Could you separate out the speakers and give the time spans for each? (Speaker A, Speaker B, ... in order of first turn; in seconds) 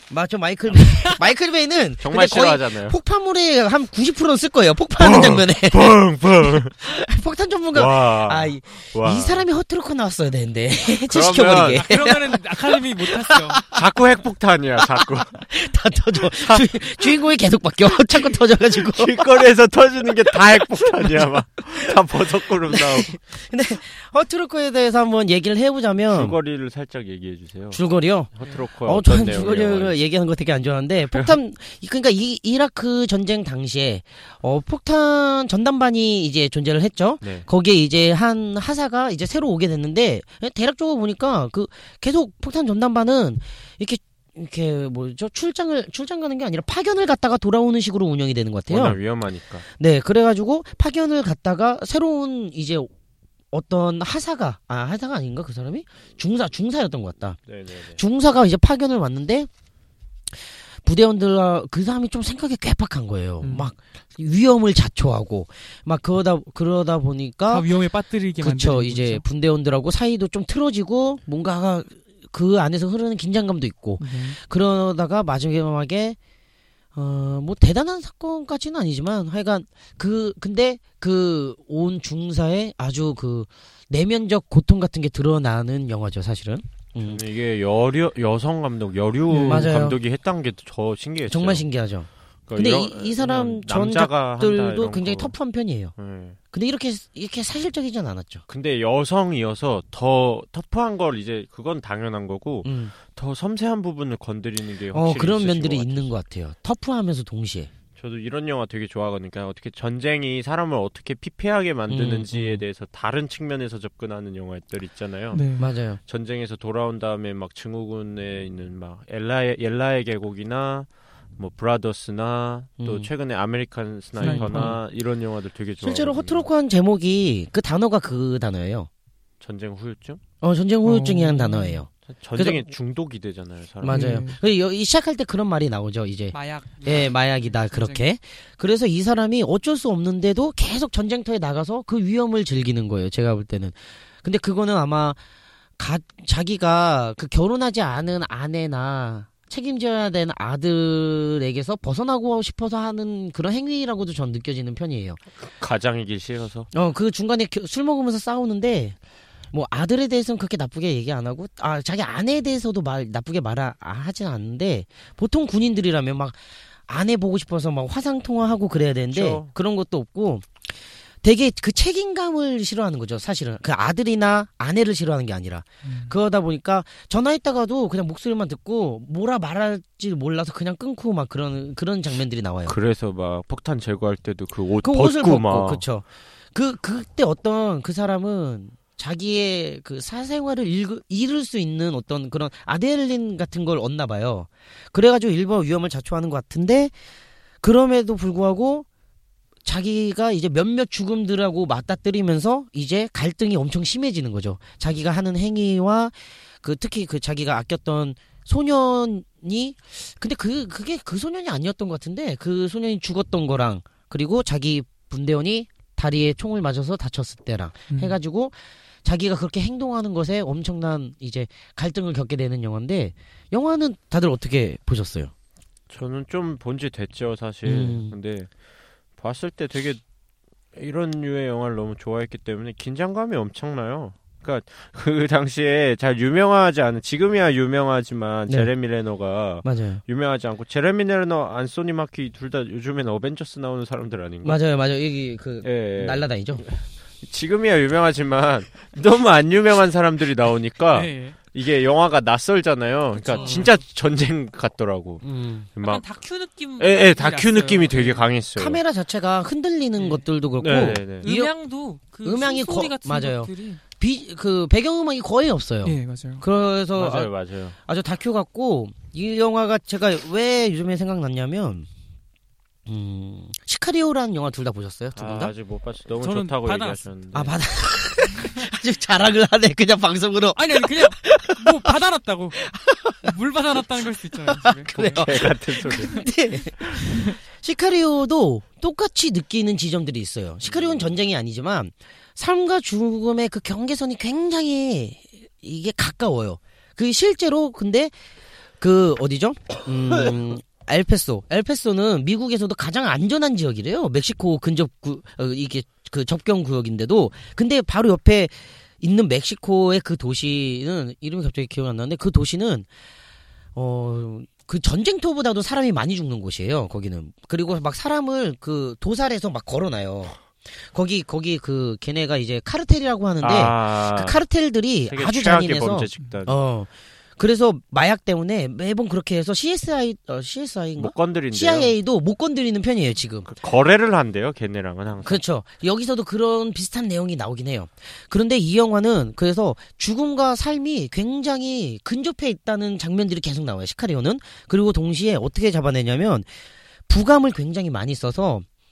Speaker A: 0.1-13.8, 14.8-19.4, 20.3-26.4, 27.7-28.3, 28.9-49.0, 49.8-52.9, 53.5-57.4, 58.0-59.5, 60.8-67.7, 68.4-76.2, 77.0-87.2, 89.4-90.0, 91.3-95.9, 96.5-98.4, 102.7-102.9, 104.9-107.7, 111.9-112.6, 115.6-116.0, 122.8-123.1, 124.2-124.8, 125.8-128.9, 130.4-132.7, 133.8-145.2, 145.8-155.2, 156.7-159.0, 159.5-170.6, 171.2-182.8, 184.8-196.9, 197.6-198.9, 199.7-225.3, 227.7-228.2, 239.6-240.0, 244.4-246.6, 253.3-253.7, 255.2-255.7, 258.6-261.5, 262.2-267.3, 267.9-271.9, 272.9-275.5, 277.3-282.0, 282.6-283.4, 284.5-298.1, 298.8-312.9, 313.8-333.5, 335.2-346.5, 347.1-348.7
Speaker B: 2.0-3.0, 5.0-6.8, 7.7-9.5, 11.0-11.9, 13.7-15.4, 16.4-16.7, 18.8-23.2, 26.1-27.8, 28.4-29.9, 37.2-37.5, 48.7-49.6, 57.5-58.0, 87.0-91.7, 92.5-95.3, 96.0-96.4, 98.5-106.1, 108.0-115.5, 116.1-126.5, 129.4-130.2, 132.1-134.2, 155.6-156.7, 169.1-169.5, 182.7-185.8, 225.9-228.5, 229.2-230.0, 230.7-244.6, 245.6-255.2, 255.8-256.0, 256.8-258.8, 260.6-261.3, 266.9-267.8, 275.2-277.6, 285.1-286.1, 290.7-291.1, 323.4-324.4, 325.1-326.6, 331.0-331.9, 333.5-335.4
Speaker C: 11.7-13.6, 63.4-63.7, 67.5-69.2, 74.0-74.4, 89.3-89.7, 115.3-115.7, 124.2-124.8, 130.8-131.8, 133.9-134.4, 136.3-138.1, 175.8-176.1, 217.9-218.2, 250.9-251.4, 253.2-253.7, 255.8-258.3, 260.0-260.3, 261.2-263.8, 265.8-266.4, 276.2-277.0, 280.5-282.6, 283.2-285.3, 285.9-286.3, 286.9-287.4